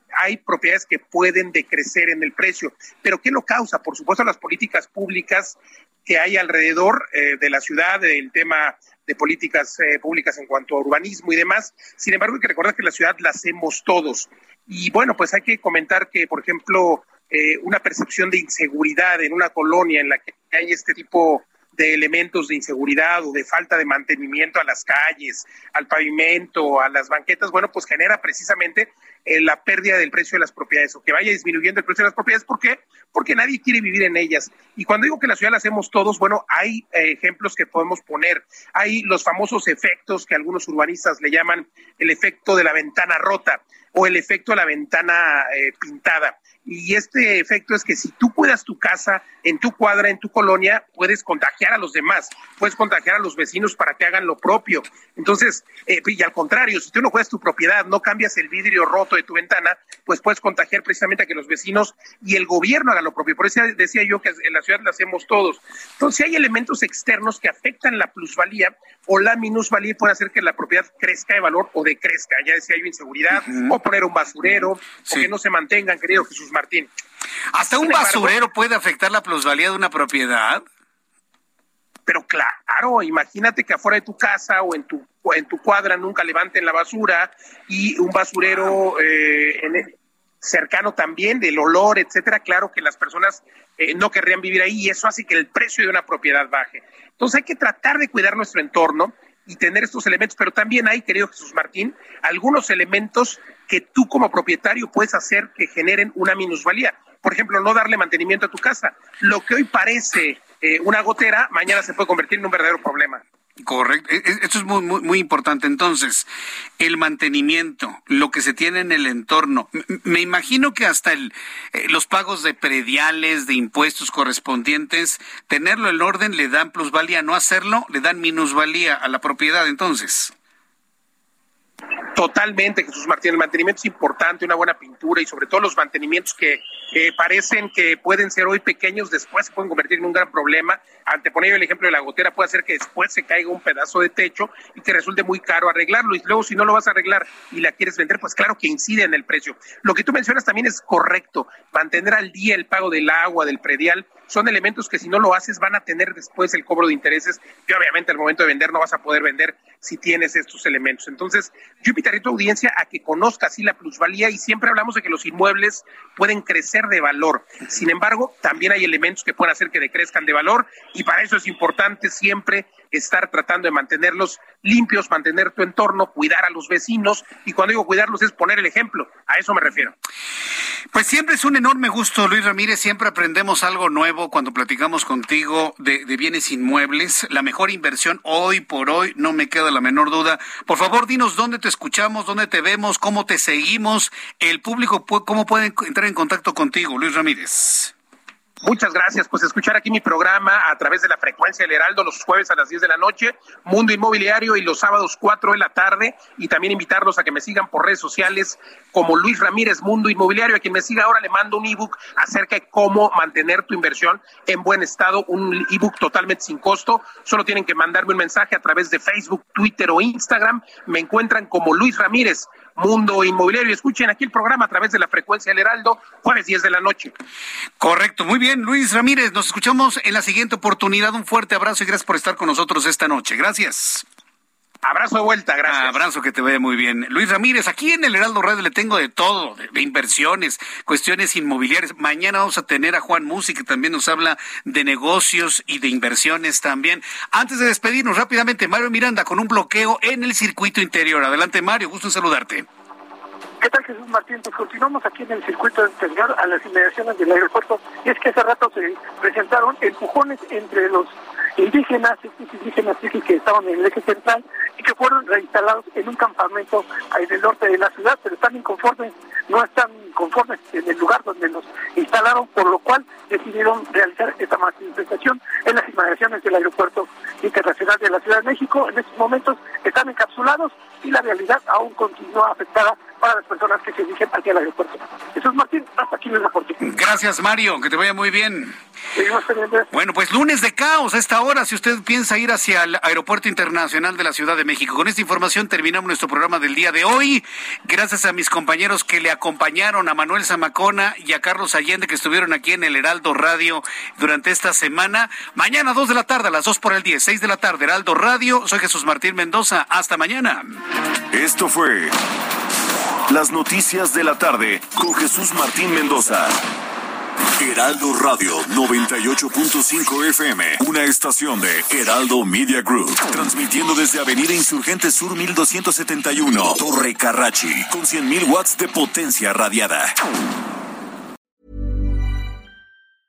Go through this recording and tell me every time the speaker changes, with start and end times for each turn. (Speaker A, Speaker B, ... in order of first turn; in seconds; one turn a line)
Speaker A: 0.2-76.9
Speaker B: 73.3-73.7
Speaker B: 77.5-80.6
Speaker A: 77.5-78.3
Speaker A: 82.1-113.2
Speaker B: 113.6-116.3
Speaker B: 116.8-130.3
Speaker A: 132.1-179.9
Speaker B: 180.9-197.9
Speaker A: 198.6-227.1
Speaker B: 227.8-234.1
Speaker A: 234.8-236.0
Speaker B: 235.7-252.7
Speaker C: 253.6-286.8
Speaker B: 286.8-288.8
Speaker C: 289.1-289.9
Speaker B: 289.9-310.8
Speaker D: 311.3-312.1
Speaker D: 313.3-316.6
Speaker D: 317.6-330.2